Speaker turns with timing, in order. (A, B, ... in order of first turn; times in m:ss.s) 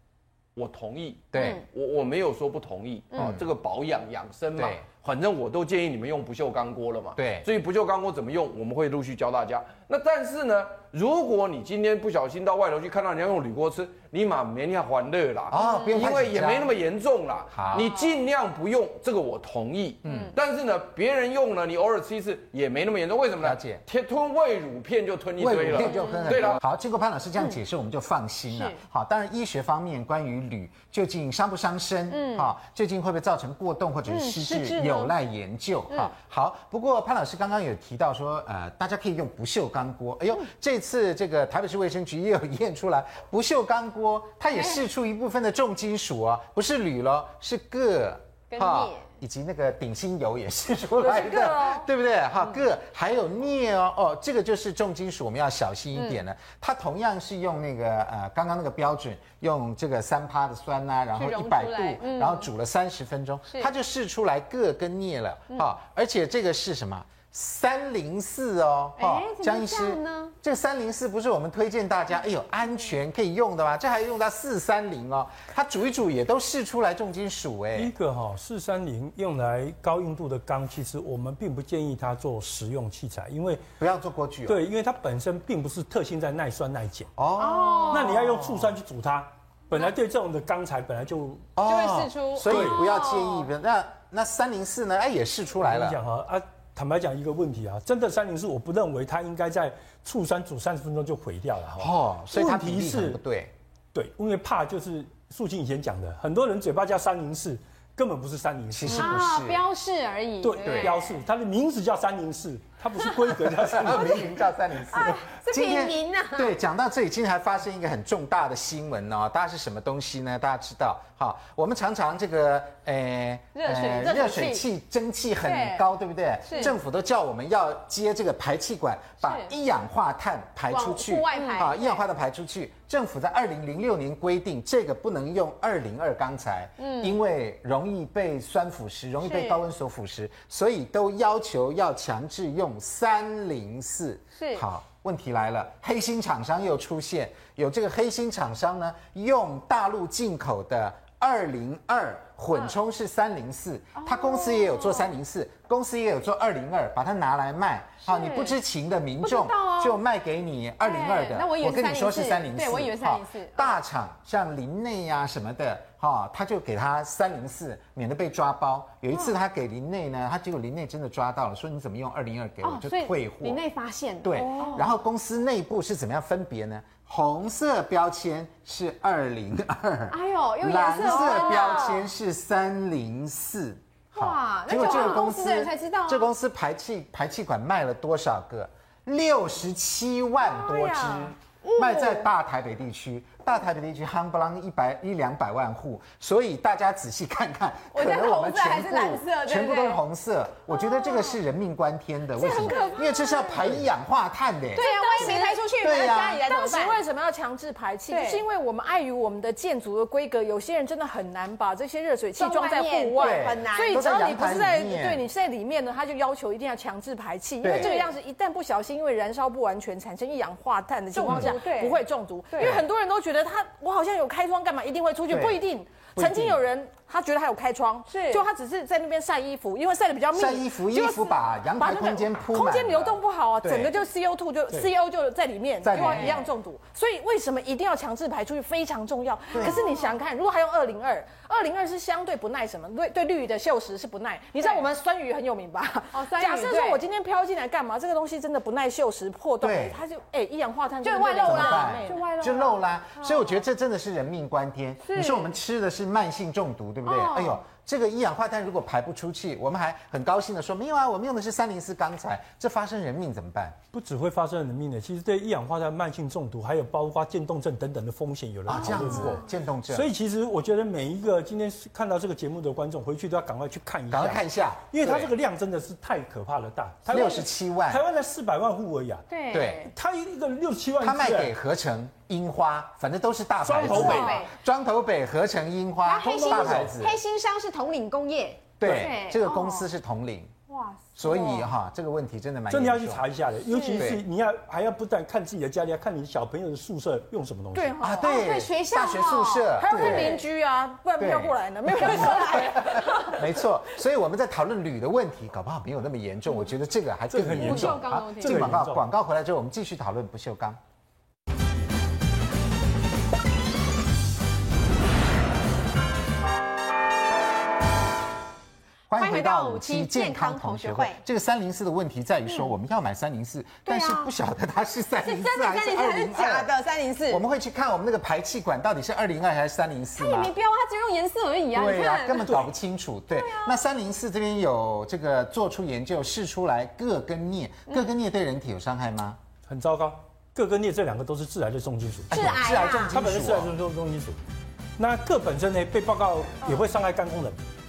0:00.6-0:26.6 A
0:01.3-0:01.6 B
0:01.3-0:01.6 C
0:03.2-0:03.4 B
0:04.6-0:04.8 B
0:07.2-0:07.5 B
0:15.5-0:16.7 B
0:15.6-0:15.9 C
0:17.5-0:17.9 B
0:20.0-0:20.4 B
0:23.4-0:23.8 B
0:25.4-1:17.9 B
0:25.8-0:26.6 C
0:28.5-0:28.8 C
0:32.1-0:32.5 C
0:34.1-0:35.1 C
0:48.5-0:49.0 C
0:51.2-0:51.6 C
1:01.2-1:02.5 C
1:09.0-1:10.3 C
1:17.7-1:23.6 D
1:23.8-1:24.6 B
1:24.5-1:27.1 D
1:27.2-1:28.7 B
1:27.4-1:28.2 C
1:27.9-1:31.5 D
1:31.6-1:36.0 B
1:31.6-1:33.5 C
1:32.4-1:32.8 D
1:35.6-1:43.2 D
1:41.8-1:43.5 B
1:43.9-1:49.2 D
1:48.7-1:49.6 B
1:48.9-1:51.2 C
1:50.4-1:54.3 D
1:50.6-1:50.9 B
1:53.6-2:53.6 B
1:54.0-1:54.4 C
1:54.9-1:56.5 C
2:03.6-2:04.6 C
2:05.4-2:05.8 C
2:06.4-2:06.7 C
2:09.2-2:09.5 C
2:10.7-2:12.0 C
2:16.8-2:17.2 C
2:19.2-2:19.6 C
2:24.4-2:24.6 C
2:34.0-2:35.1 C
2:38.0-2:38.6 C
2:39.2-2:40.0 C
2:40.8-2:43.8 C
2:52.6-2:54.9 C
2:54.2-3:26.5 B
3:00.1-3:02.0 C
3:04.1-3:06.3 C
3:10.4-3:12.3 C
3:17.9-3:20.0 C
3:20.8-3:21.3 C
3:22.4-3:23.5 E
3:22.4-3:23.1 C
3:24.7-3:27.0 C
3:24.8-3:25.7 E
3:26.4-4:12.3 E
3:28.1-3:28.4 C
3:32.4-3:34.5 C
3:33.2-3:35.2 B
3:37.6-3:37.9 B
3:37.7-3:38.1 C
3:41.1-3:42.8 C
3:45.3-3:45.6 B
3:46.2-3:46.6 B
3:48.1-3:48.4 C
3:50.3-3:53.9 B
3:55.8-3:56.5 B
3:55.9-3:56.5 C
3:59.5-3:59.8 B
3:59.6-4:00.0 C
4:06.1-4:07.0 C
4:09.6-4:10.0 B
4:11.0-4:12.8 C
4:11.4-4:23.8 B
4:15.1-4:15.4 C
4:17.0-4:17.6 C
4:23.9-4:39.3 D
4:28.7-4:30.1 B
4:28.7-4:29.4 C
4:34.1-4:35.3 B
4:37.1-4:38.0 B
4:39.3-4:39.9 C
4:39.5-4:39.9 B
4:39.8-4:41.5 D
4:41.0-4:47.2 B
4:43.6-4:44.4 D
4:43.8-4:44.5 C
4:46.0-4:49.9 C
4:46.2-4:47.0 D
4:48.8-4:50.5 B
4:50.7-4:51.7 C
4:51.2-4:53.2 B
4:52.7-4:58.0 D
4:54.0-4:54.2 B
4:57.7-4:58.4 E
4:58.0-5:00.4 B
4:58.2-5:00.5 C
4:59.8-5:03.5 E
5:01.2-5:10.8 B
5:02.0-5:02.7 C
5:07.3-5:09.0 D
5:07.6-5:08.7 C
5:19.1-5:26.7 B
5:19.1-5:21.2 C
5:23.8-5:24.3 C
5:25.2-5:27.4 C
5:27.3-5:30.5 B
5:30.2-5:32.5 C
5:31.7-5:39.4 B
5:33.3-5:33.8 C
5:39.6-5:42.5 D
5:42.3-5:43.1 C
5:42.3-5:43.7 B
5:43.0-5:44.4 D
5:45.0-5:47.6 D